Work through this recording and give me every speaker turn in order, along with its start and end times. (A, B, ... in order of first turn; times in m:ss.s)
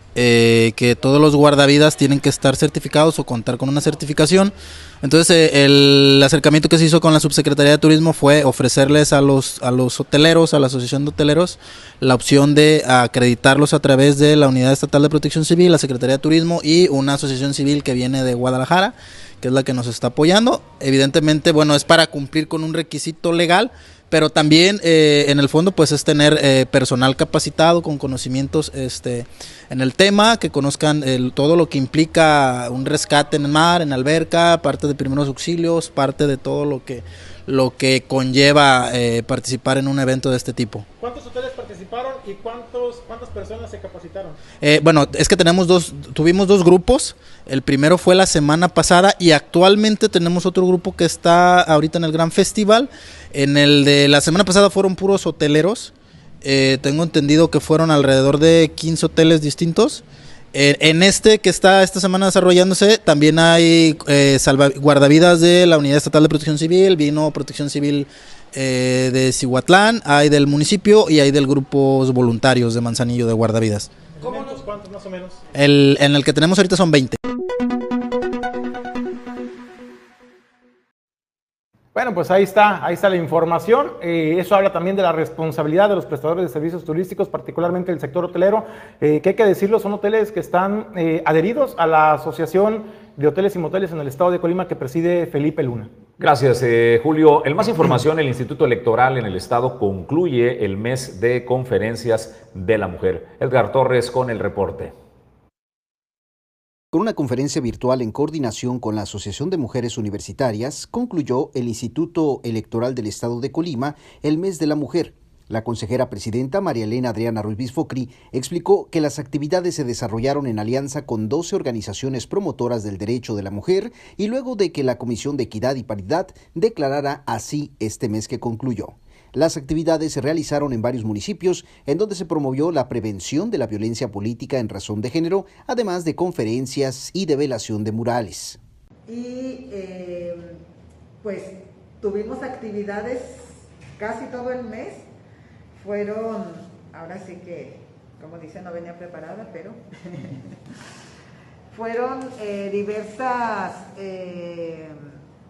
0:00.1-0:40.8 A
0:41.0-0:44.4 B
0:44.6-1:00.0 A
1:00.5-1:13.9 A
1:14.2-1:15.4 B
1:15.5-1:17.2 A
1:21.9-1:35.9 B
1:36.2-1:44.9 C
1:46.9-2:18.6 D
2:19.1-2:20.6 E
2:21.2-2:25.0 E
2:25.7-2:30.5 E
2:31.7-2:35.1 E